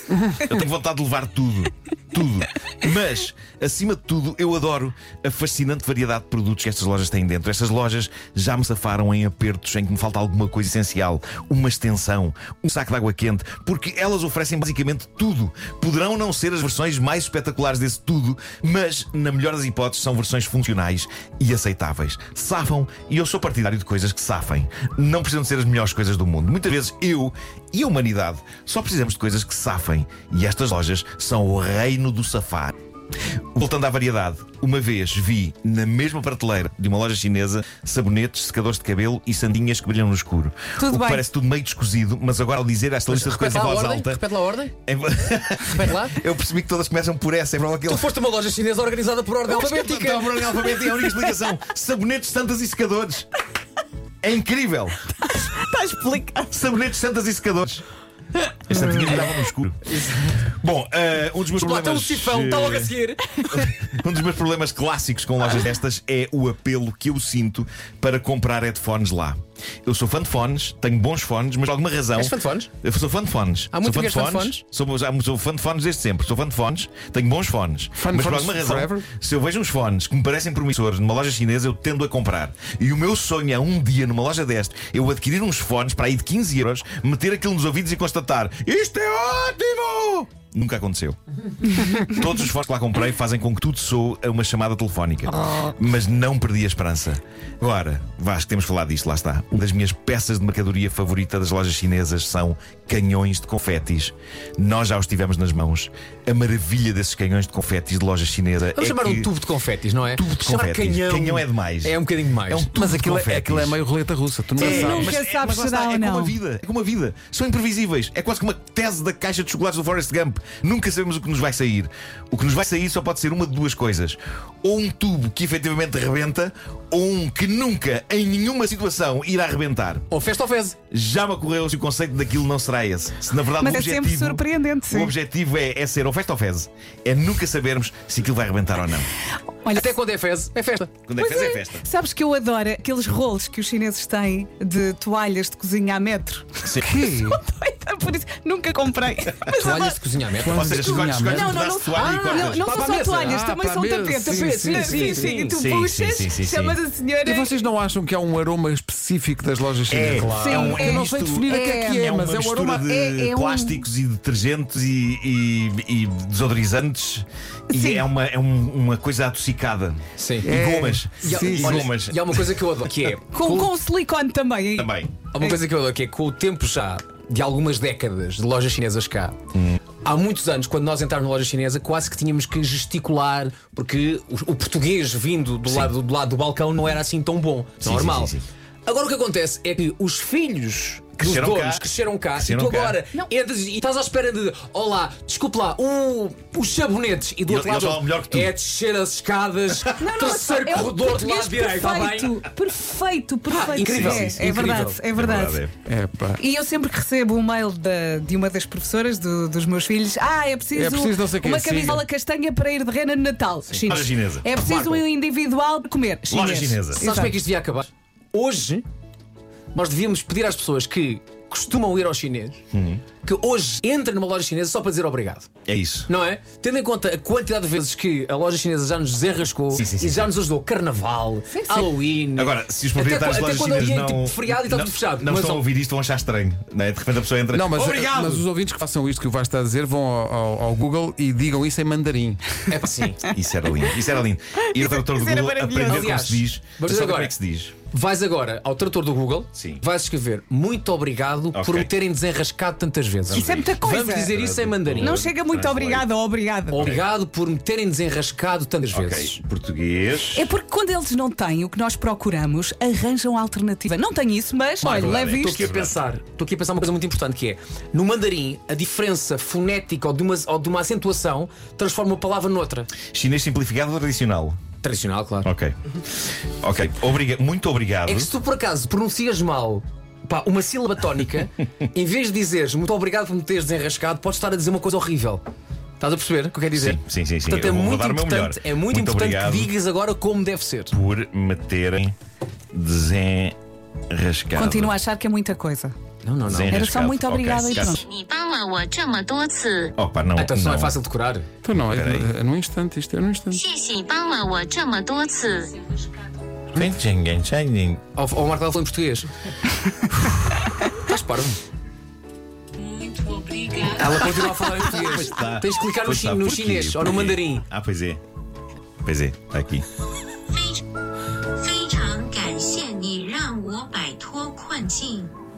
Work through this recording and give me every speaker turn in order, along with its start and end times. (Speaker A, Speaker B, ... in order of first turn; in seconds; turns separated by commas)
Speaker A: 0.3-32.7, Speaker A: 33.5-44.2, Speaker B: 40.8-41.2, Speaker C: 43.1-44.7, Speaker A: 44.9-48.1, Speaker C: 45.7-46.2, Speaker C: 47.9-51.0, Speaker A: 49.6-53.3, Speaker A: 54.2-55.0, Speaker B: 55.3-56.6, Speaker A: 56.5-57.8, Speaker B: 58.7-59.2, Speaker A: 58.7-62.9, Speaker C: 59.9-60.4, Speaker C: 61.5-63.7, Speaker A: 63.5-109.3, Speaker C: 72.2-72.7, Speaker C: 73.7-74.6, Speaker D: 78.0-79.0, Speaker C: 108.7-112.7, Speaker A: 110.1-113.8, Speaker D: 112.7-115.2, Speaker A: 114.6-130.1, Speaker B: 114.6-116.3, Speaker C: 130.1-130.8, Speaker A: 130.9-139.1, Speaker B: 133.6-135.1, Speaker C: 139.7-140.9, Speaker A: 141.1-141.8, Speaker B: 141.2-150.0, Speaker D: 146.8-147.4, Speaker C: 149.5-151.0, Speaker D: 150.4-151.5, Speaker A: 150.4-152.7, Speaker B: 151.0-157.6, Speaker C: 151.9-153.4, Speaker D: 152.5-155.4, Speaker C: 154.2-155.6, Speaker A: 155.5-156.8, Speaker D: 157.2-162.8, Speaker A: 159.9-172.2, Speaker B: 160.3-162.1, Speaker B: 162.9-163.8, Speaker B: 167.7-168.0, Speaker C: 170.2-170.5, Speaker D: 170.4-171.9, Speaker C: 171.2-173.6, Speaker B: 173.3-175.6, Speaker A: 174.8-175.1, Speaker C: 175.3-179.4, Speaker A: 179.5-179.8, Speaker C: 180.0-202.4, Speaker A: 187.8-188.4, Speaker A: 191.2-193.0, Speaker A: 197.5-198.5, Speaker B: 200.0-205.6, Speaker C: 203.5-205.0, Speaker A: 203.8-204.4, Speaker A: 205.1-205.7, Speaker D: 205.8-206.4, Speaker B: 206.4-217.4, Speaker D: 210.7-212.0, Speaker A: 213.8-214.5, Speaker C: 214.5-215.0, Speaker A: 216.3-217.0, Speaker C: 216.9-218.8, Speaker C: 219.7-222.6, Speaker A: 222.7-223.0, Speaker C: 223.2-225.5, Speaker A: 225.7-226.1, Speaker C: 226.1-235.7, Speaker A: 229.7-230.3, Speaker B: 231.6-231.9, Speaker A: 232.3-238.5, Speaker D: 237.5-242.4, Speaker C: 242.7-243.2, Speaker A: 243.2-247.7, Speaker B: 244.7-246.2, Speaker C: 245.8-247.3, Speaker C: 247.9-255.2, Speaker A: 249.5-249.8, Speaker A: 251.5-251.9, Speaker A: 253.3-256.1, Speaker B: 253.3-254.3, Speaker B: 255.0-256.9, Speaker C: 256.7-259.4, Speaker A: 256.8-257.0, Speaker A: 258.9-260.5, Speaker B: 260.3-265.7, Speaker A: 264.8-266.0, Speaker C: 264.8-272.9, Speaker A: 273.1-274.6, Speaker C: 274.8-275.5, Speaker A: 275.4-275.7, Speaker A: 276.6-278.3, Speaker C: 278.1-285.4, Speaker C: 286.0-290.9, Speaker A: 286.7-289.7, Speaker A: 290.9-292.1, Speaker A: 292.7-293.6, Speaker A: 294.1-294.9, Speaker B: 294.6-295.9, Speaker C: 296.2-296.9, Speaker A: 296.4-298.0, Speaker B: 296.7-298.0, Speaker E: 297.7-299.9, Speaker A: 300.0-300.9, Speaker C: 300.4-301.5, Speaker D: 301.6-303.6, Speaker A: 301.8-302.3, Speaker E: 303.5-306.0, Speaker A: 306.7-308.0, Speaker C: 308.1-309.3, Speaker C: 311.0-311.6, Speaker C: 312.9-317.6, Speaker E: 313.2-314.0, Speaker A: 314.9-318.2, Speaker A: 319.0-319.8, Speaker E: 320.5-320.9, Speaker E: 321.5-325.3